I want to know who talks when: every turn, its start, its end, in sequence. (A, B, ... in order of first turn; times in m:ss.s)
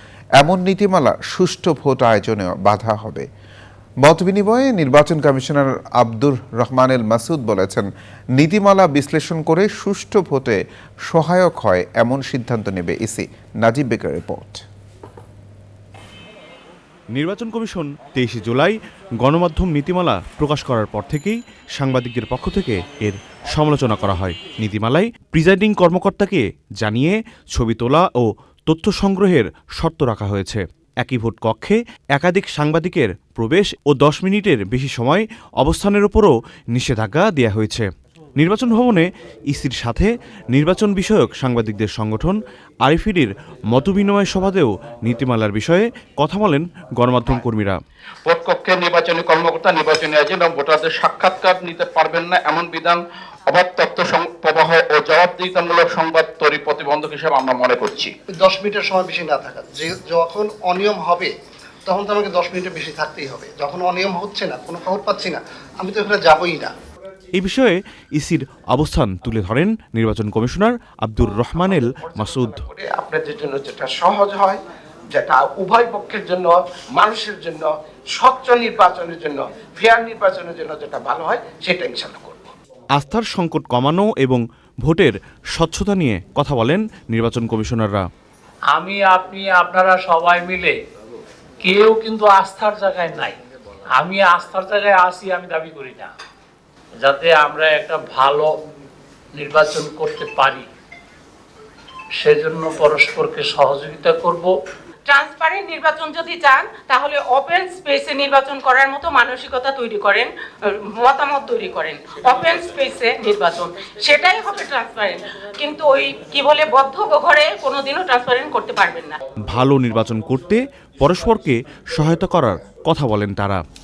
0:00.4-0:03.2 A
0:04.0-0:07.9 A
0:08.4-0:10.6 A
0:11.1-0:14.6 A
0:17.2-0:37.8 B
0:38.4-0:47.8 B
0:48.3-0:58.1 C
0:58.3-1:01.3 D
1:01.9-1:06.7 D
1:07.4-1:12.6 B
1:11.2-1:14.6 E
1:15.1-1:22.5 E
1:23.0-1:28.0 B
1:28.8-1:30.8 F
1:31.6-1:33.4 F
1:34.0-1:36.1 F
1:37.0-1:38.5 F
1:39.4-1:40.7 F
1:42.2-1:44.5 F
1:45.1-1:50.3 G
1:51.0-1:59.2 G
1:59.5-2:03.6 B